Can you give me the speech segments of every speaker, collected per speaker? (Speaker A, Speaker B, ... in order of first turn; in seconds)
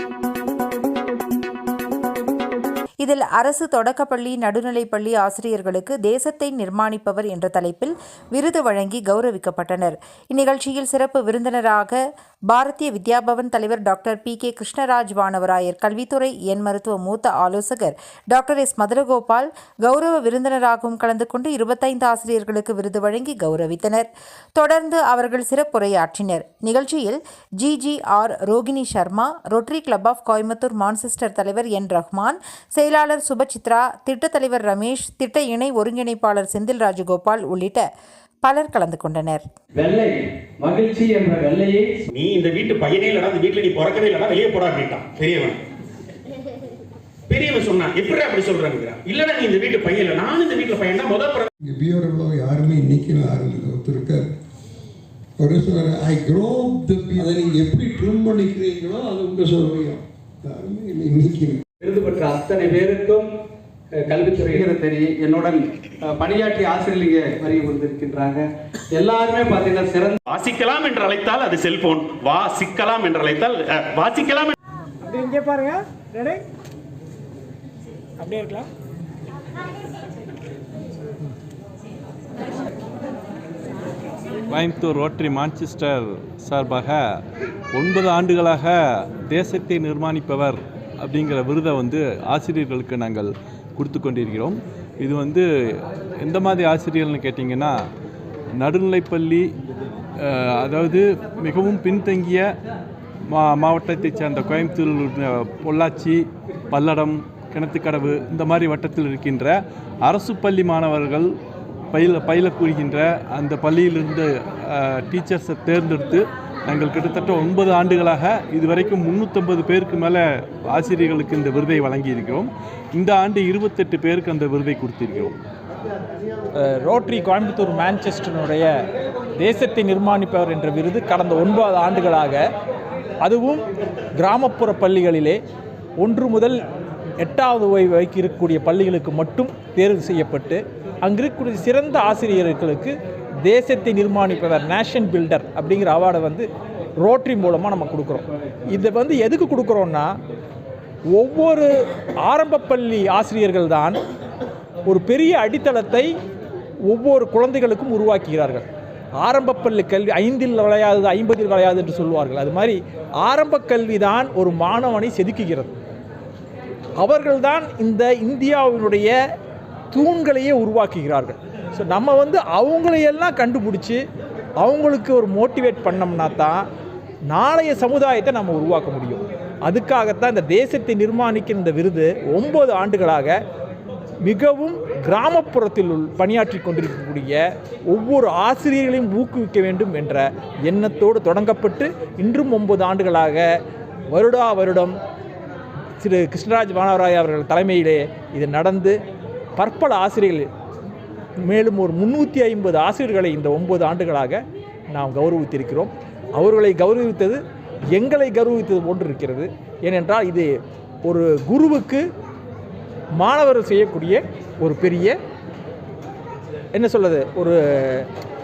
Speaker A: 3.0-37.9, 38.4-39.4
Speaker B: 39.8-41.9, 61.8-63.3, 64.0-70.2
Speaker C: 42.1-45.6, 47.3-51.5, 70.3-74.5
Speaker D: 51.6-54.3, 55.4-61.6
Speaker E: 75.0-76.4, 78.2-78.7, 126.5-128.7, 129.4-132.4, 133.2-133.6, 134.2-135.4, 136.0-136.6, 137.2-150.1, 151.1-151.7, 152.2-154.0, 154.8-156.1, 156.8-158.7, 159.2-165.7, 167.0-169.1, 169.9-174.0, 174.6-176.6, 177.3-183.4, 184.2-193.5, 194.1-195.0, 196.0-199.0, 199.6-200.5, 201.4-207.4, 207.9-210.5, 211.0-212.0, 213.2-215.2, 216.7-218.1
Speaker F: 84.5-87.0, 87.7-97.8, 98.6-99.5, 100.2-102.5, 103.3-111.3, 111.9-125.4